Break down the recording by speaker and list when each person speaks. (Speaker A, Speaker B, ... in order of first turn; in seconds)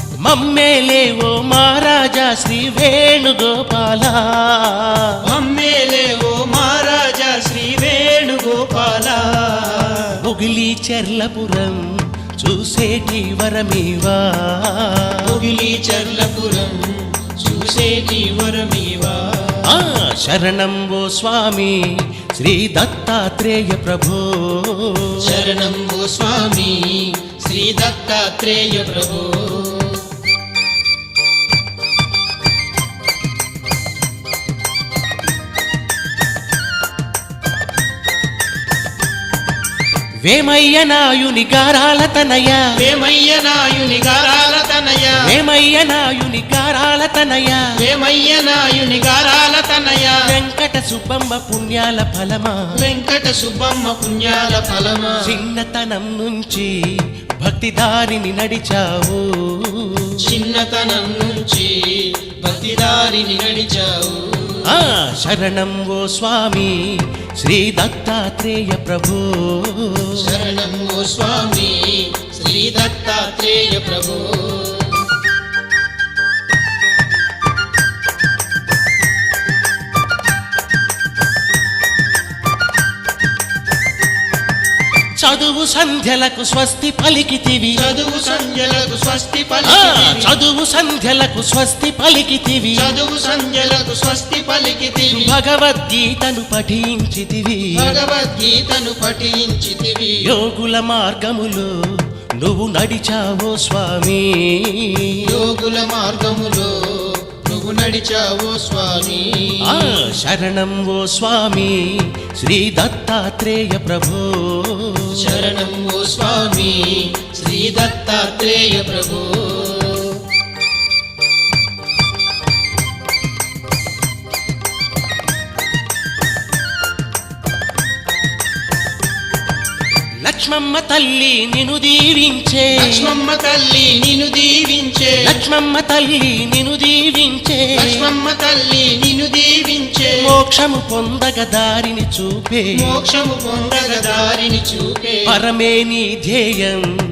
Speaker A: 0.2-5.2, 10.2-11.9, 12.4-15.2, 19.7-25.2, 40.2-42.8, 45.2-47.7, 50.2-52.6, 55.2-56.7, 57.4-60.2, 64.6-70.2, 85.2-87.9, 89.7-92.9, 95.1-98.0, 100.2-101.7, 102.4-105.2, 109.7-115.2, 130.2-133.1, 135.2-138.0, 140.1-142.9, 145.2-146.9
Speaker B: 5.2-10.2, 15.2-19.7, 25.2-30.0, 42.8-45.3, 47.8-50.3, 52.8-55.4, 60.2-64.7, 70.2-75.1, 87.8-90.3, 92.8-95.3, 97.8-100.3, 105.2-110.0, 115.1-120.2, 132.8-135.4, 137.8-140.3, 142.8-145.4